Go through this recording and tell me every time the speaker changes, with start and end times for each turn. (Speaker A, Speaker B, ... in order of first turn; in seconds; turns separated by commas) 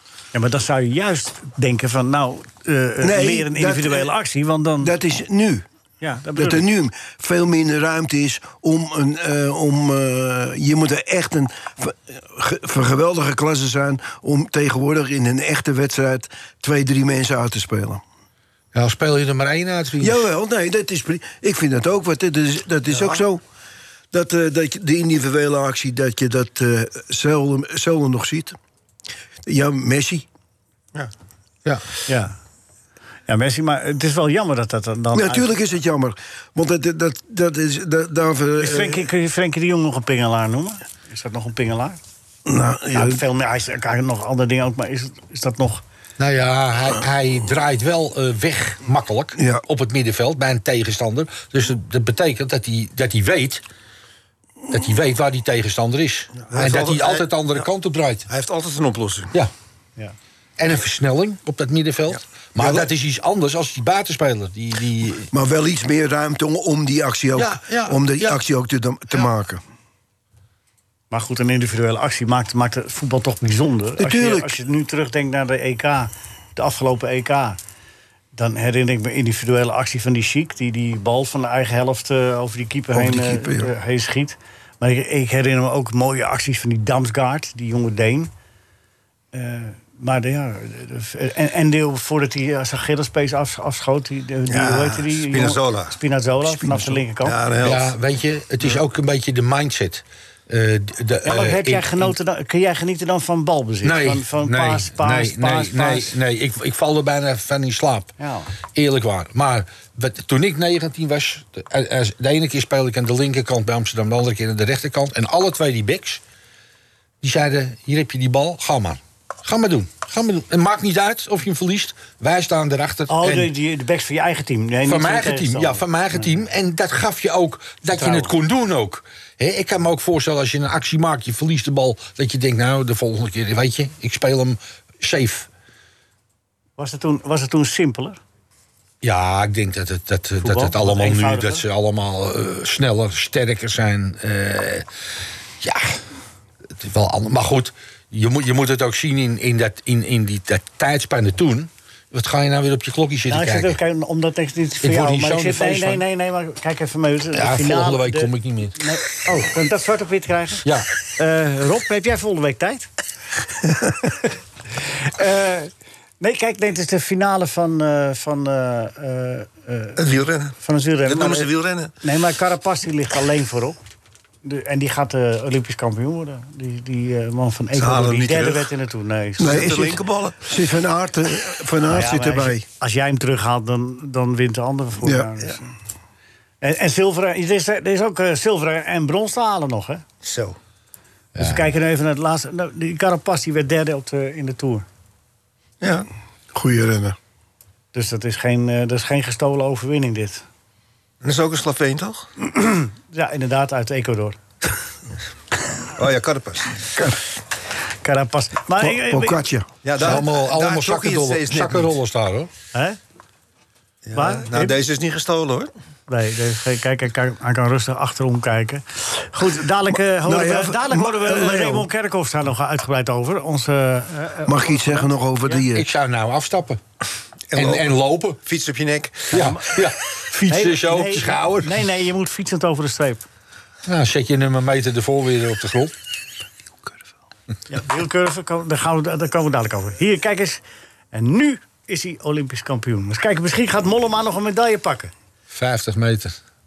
Speaker A: 0.3-4.9, Speaker B: 3.0-4.1, Speaker B: 4.8-5.7, Speaker A: 6.0-6.7, Speaker B: 6.3-18.0, Speaker C: 18.7-20.2, Speaker B: 20.0-23.4, Speaker B: 24.1-28.6, Speaker B: 29.4-30.3, Speaker A: 32.1-32.4, Speaker A: 33.3-35.5, Speaker B: 35.1-39.1, Speaker A: 38.6-42.0, Speaker B: 42.5-43.2, Speaker A: 42.9-45.8, Speaker C: 46.2-53.6, Speaker B: 49.4-49.6, Speaker C: 54.7-58.3, Speaker D: 56.4-57.7, Speaker D: 58.3-59.3, Speaker C: 60.6-65.3, Speaker B: 65.3-69.6, Speaker C: 67.4-68.3, Speaker A: 71.1-77.6, Speaker B: 74.0-74.5, Speaker A: 78.3-88.3, Speaker B: 82.9-83.7, Speaker A: 89.3-97.4, Speaker D: 94.5-96.0, Speaker B: 96.7-97.0, Speaker D: 97.2-98.0, Speaker C: 97.6-102.1, Speaker A: 101.2-106.2, Speaker C: 103.8-108.1, Speaker A: 108.2-108.5, Speaker C: 108.7-116.2, Speaker C: 117.2-123.5, Speaker A: 123.1-126.3, Speaker C: 124.8-135.5, Speaker A: 128.0-128.3, Speaker A: 136.8-138.2, Speaker C: 139.0-144.9, Speaker A: 140.4-141.7, Speaker C: 145.6-146.0, Speaker C: 146.8-153.8, Speaker A: 153.3-160.7, Speaker C: 154.8-156.0, Speaker C: 157.3-158.8, Speaker A: 161.2-162.9, Speaker A: 165.0-170.0, Speaker D: 170.0-171.9, Speaker A: 170.6-173.8, Speaker A: 174.4-179.9, Speaker D: 177.8-178.7, Speaker D: 179.4-180.5, Speaker B: 179.4-182.7, Speaker A: 181.9-185.7, Speaker B: 185.0-185.3, Speaker A: 186.6-190.0, Speaker D: 190.2-190.6, Speaker C: 191.4-191.7, Speaker A: 191.4-194.9, Speaker D: 195.8-196.1, Speaker B: 196.5-197.2, Speaker A: 197.9-200.4, Speaker D: 201.2-202.3, Speaker A: 202.4-204.4, Speaker D: 205.9-206.9, Speaker A: 208.0-209.4, Speaker B: 208.8-209.7, Speaker D: 209.8-212.0, Speaker C: 210.0-212.5, Speaker D: 214.1-215.7, Speaker A: 214.1-214.8, Speaker A: 216.1-225.5, Speaker B: 220.2-221.9, Speaker B: 224.5-225.9, Speaker C: 225.7-226.8, Speaker D: 227.5-229.5, Speaker C: 227.6-228.4, Speaker A: 229.3-229.8, Speaker C: 229.3-231.9, Speaker A: 230.5-233.2, Speaker C: 233.8-235.9, Speaker A: 237.7-245.1, Speaker C: 245.5-246.4